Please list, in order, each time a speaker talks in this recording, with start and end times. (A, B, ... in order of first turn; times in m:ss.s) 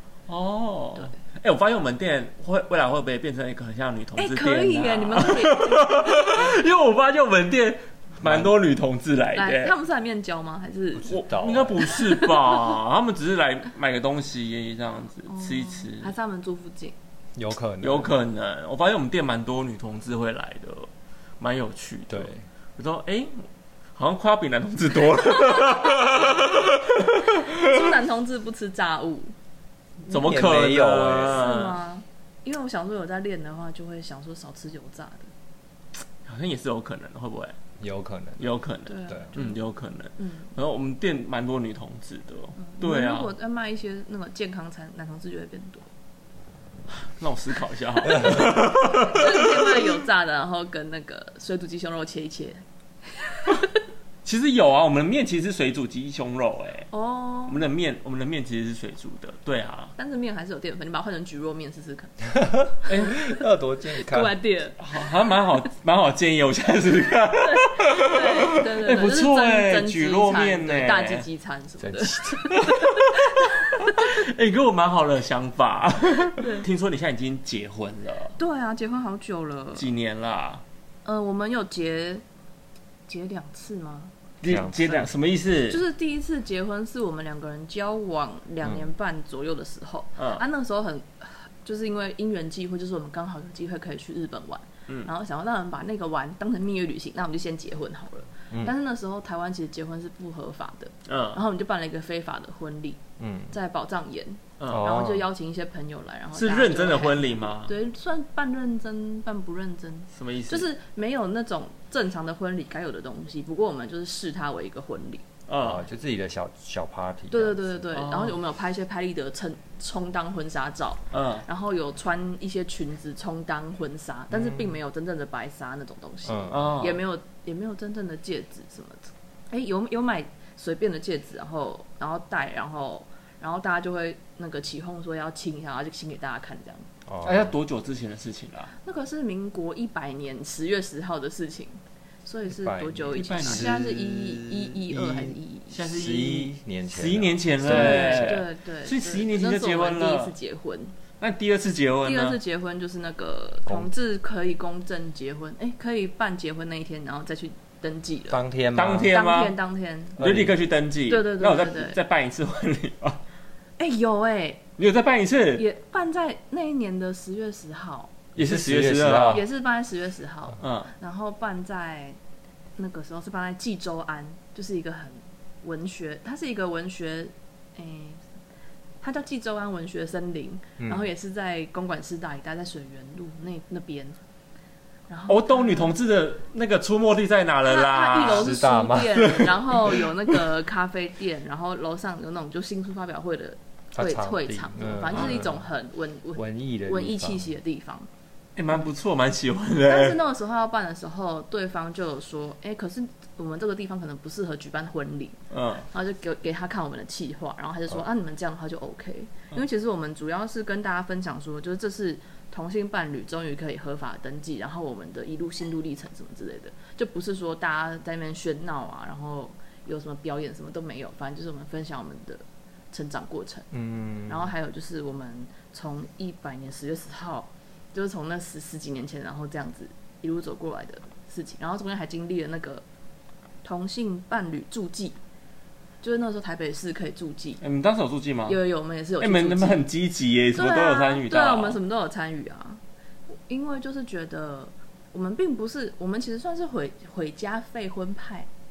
0:00.3-0:09.7 A
0:04.2-0:06.6 B
0:08.2-0:08.5 C
0:09.4-0:11.2 B
0:11.0-0:11.9 C
0:11.0-0:16.1 A
0:11.8-0:12.6 B
0:15.3-0:17.0 B
0:17.4-0:18.2 C
0:17.8-0:20.9 A
0:21.4-0:27.8 A
0:22.1-0:22.4 C
0:27.4-0:29.3 B
0:30.1-0:31.5 C
0:30.1-0:31.8 A
0:31.3-0:35.3 B
0:36.3-0:37.6 A
0:37.8-0:38.6 C
0:38.4-0:43.3 A
0:38.9-0:39.6 B
0:40.2-0:40.5 B
0:42.6-0:45.9 B
0:47.0-0:50.0 A
0:48.1-0:53.8 B
0:54.2-0:56.9 A
0:56.9-0:57.6 B
0:57.5-0:59.9 A
1:00.0-1:03.3 B
1:02.4-1:04.4 C
1:02.9-1:03.2 A
1:04.0-1:05.0 B
1:04.8-1:11.3 A
1:07.4-1:14.1 B
1:11.8-1:12.5 C
1:12.5-1:13.2 A
1:13.9-1:18.4 A
1:16.4-1:16.7 B
1:18.4-1:19.9 B
1:19.8-1:20.6 A
1:21.0-1:22.2 B
1:23.1-1:24.1 B
1:24.4-1:25.8 A
1:24.4-1:25.1 C
1:25.7-1:55.2 B
1:30.2-1:30.4 A
1:41.1-1:41.4 A
1:43.2-1:43.5 C
1:44.6-1:44.9 A
1:44.7-1:45.3 C
1:46.3-1:47.8 A
1:50.2-1:50.7 A
1:55.5-1:55.8 A
1:55.6-1:57.8 C
1:57.3-2:16.9 B
1:57.9-1:58.4 A
2:01.1-2:01.4 A
2:04.3-2:04.7 C
2:06.3-2:06.8 C
2:06.5-2:07.0 A
2:17.1-2:17.6 C
2:17.2-2:18.7 A
2:18.8-2:25.9 B
2:22.5-2:28.4 C
2:23.1-2:23.9 A
2:25.7-2:30.4 A
2:27.6-2:31.0 B
2:31.2-2:32.4 A
2:32.0-2:38.4 B
2:38.3-2:39.1 C
2:38.7-2:39.6 A
2:39.1-2:40.2 B
2:40.2-2:40.6 C
2:40.2-2:43.2 A
2:41.1-2:42.0 B
2:43.8-2:44.6 B
2:44.8-2:45.6 A
2:45.6-2:48.1 B
2:48.4-2:49.4 C
2:48.4-2:49.4 A
2:49.3-2:52.2 B
2:50.6-2:50.9 A
2:52.8-2:58.2 B
2:59.0-3:04.2 B
3:00.8-3:01.1 C
3:05.1-3:06.0 B
3:05.3-3:08.6 A
3:07.7-3:18.1 B
3:08.3-3:09.4 C
3:09.2-3:10.0 A
3:14.0-3:15.6 C
3:15.1-3:15.4 A
3:16.4-3:17.5 C
3:18.6-3:20.2 A
3:19.8-3:25.4 B
3:25.5-3:25.9 A
3:25.9-3:43.7 B
3:43.7-3:44.5 C
3:44.3-3:52.8 B
3:53.6-3:55.2 B
3:56.0-3:57.6 B
3:57.6-3:58.6 A
3:58.5-3:59.9 B
3:59.2-4:01.8 A
4:00.6-4:02.8 B
4:03.5-4:08.5 B